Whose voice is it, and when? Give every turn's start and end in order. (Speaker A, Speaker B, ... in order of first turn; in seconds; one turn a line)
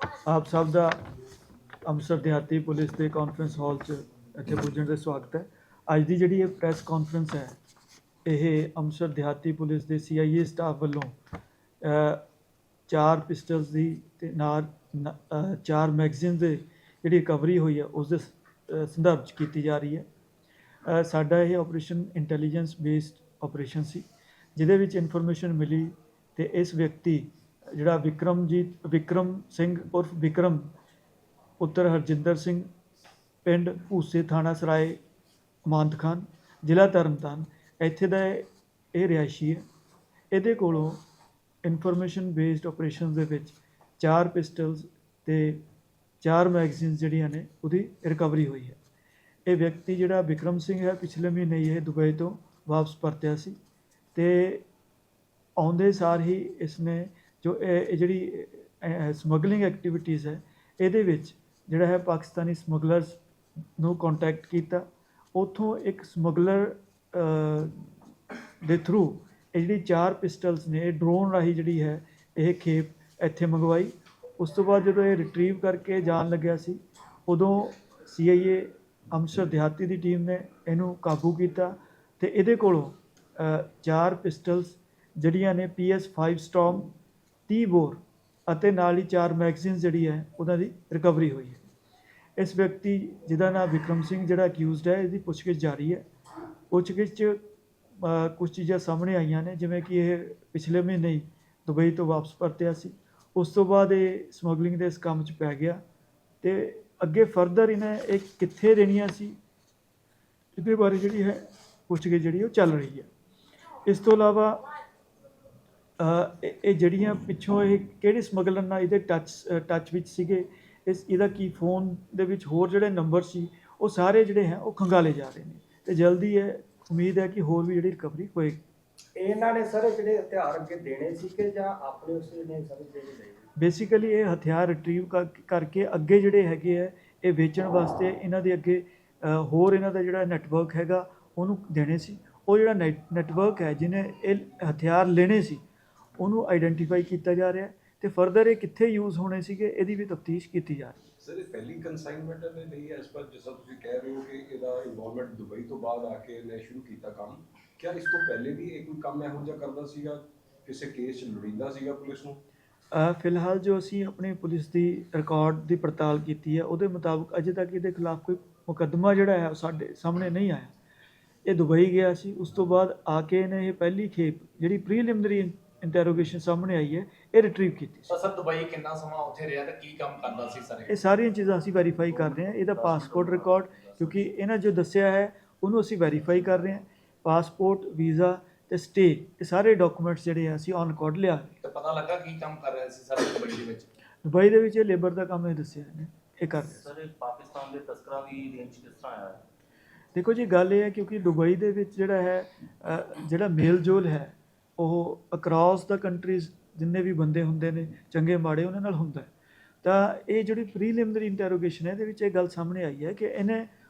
Speaker A: 0.2-1.0
Speaker A: 1.8-7.6
Speaker A: 8.2-11.1
Speaker A: 11.8-12.2
Speaker A: 12.9-20.0
Speaker A: 20.9-24.0
Speaker A: 24.6-30.7
Speaker A: 31.6-32.7
Speaker A: 33.5-35.0
Speaker A: 35.7-39.6
Speaker A: 40.3-41.0
Speaker A: 41.6-45.6
Speaker A: 46.2-48.8
Speaker A: 49.5-53.5
Speaker A: 54.1-54.6
Speaker A: 55.6-63.2
Speaker A: 63.8-67.7
Speaker A: 68.6-86.9
Speaker A: 87.5-91.6
Speaker A: 92.4-96.0
Speaker A: 96.7-97.4
Speaker A: 98.0-105.8
Speaker A: 106.4-109.4
Speaker A: 110.6-113.1
Speaker A: 113.8-114.7
Speaker A: 116.0-128.6
Speaker B: 129.2-133.4
Speaker A: 133.6-145.6
Speaker A: 146.2-151.0
Speaker C: 151.2-162.4
Speaker A: 162.9-170.7
Speaker A: 171.4-178.1
Speaker D: 178.1-181.0
Speaker A: 180.9-191.6
Speaker E: 182.0-184.2
Speaker D: 191.6-193.9
Speaker A: 194.2-196.8
Speaker E: 196.6-199.4
Speaker A: 200.1-209.3
Speaker A: 209.8-213.7